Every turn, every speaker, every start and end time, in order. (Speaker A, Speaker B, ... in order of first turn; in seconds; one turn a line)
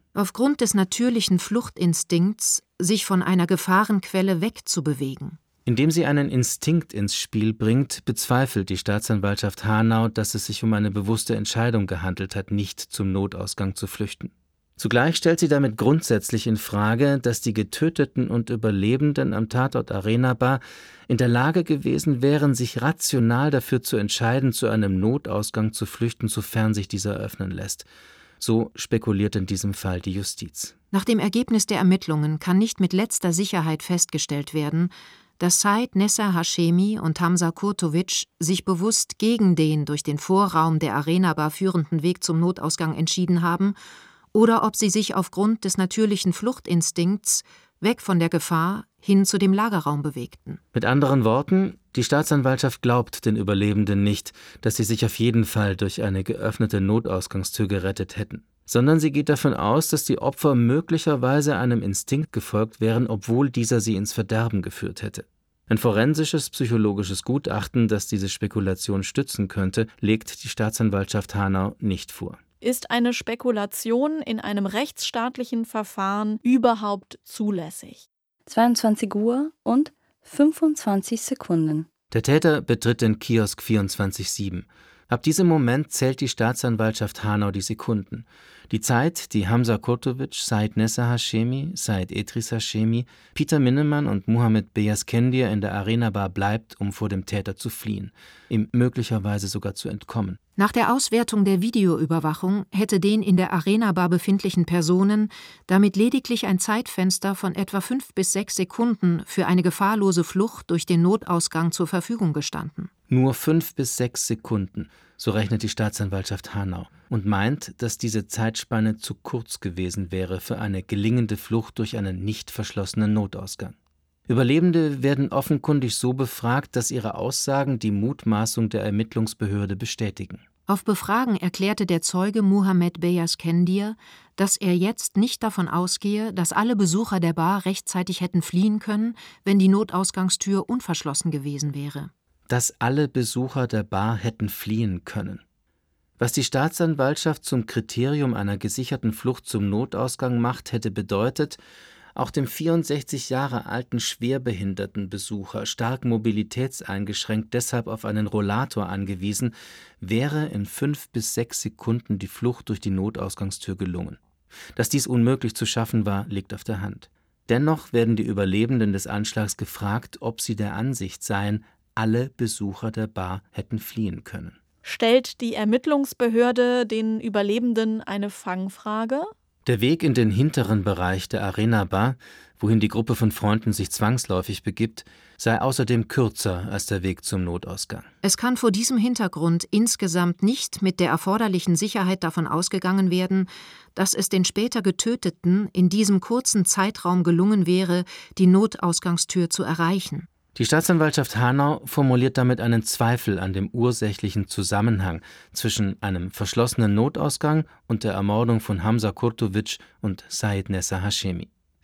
Speaker A: 0.1-5.4
Speaker B: 5.7-27.9
Speaker B: 28.4-30.8
Speaker A: 30.9-43.8
Speaker A: 44.3-50.6
Speaker B: 50.7-72.4
Speaker C: 72.6-78.1
Speaker D: 78.5-81.9
Speaker B: 82.1-100.4
Speaker A: 100.6-112.9
Speaker B: 113.1-123.8
Speaker B: 124.3-130.4
Speaker A: 130.7-142.1
Speaker B: 142.5-145.4
Speaker B: 146.2-151.6
Speaker B: 152.2-164.2
Speaker B: 164.8-174.6
Speaker C: 174.8-179.3
Speaker B: 179.7-188.1
Speaker A: 188.2-200.3
Speaker B: 200.6-211.5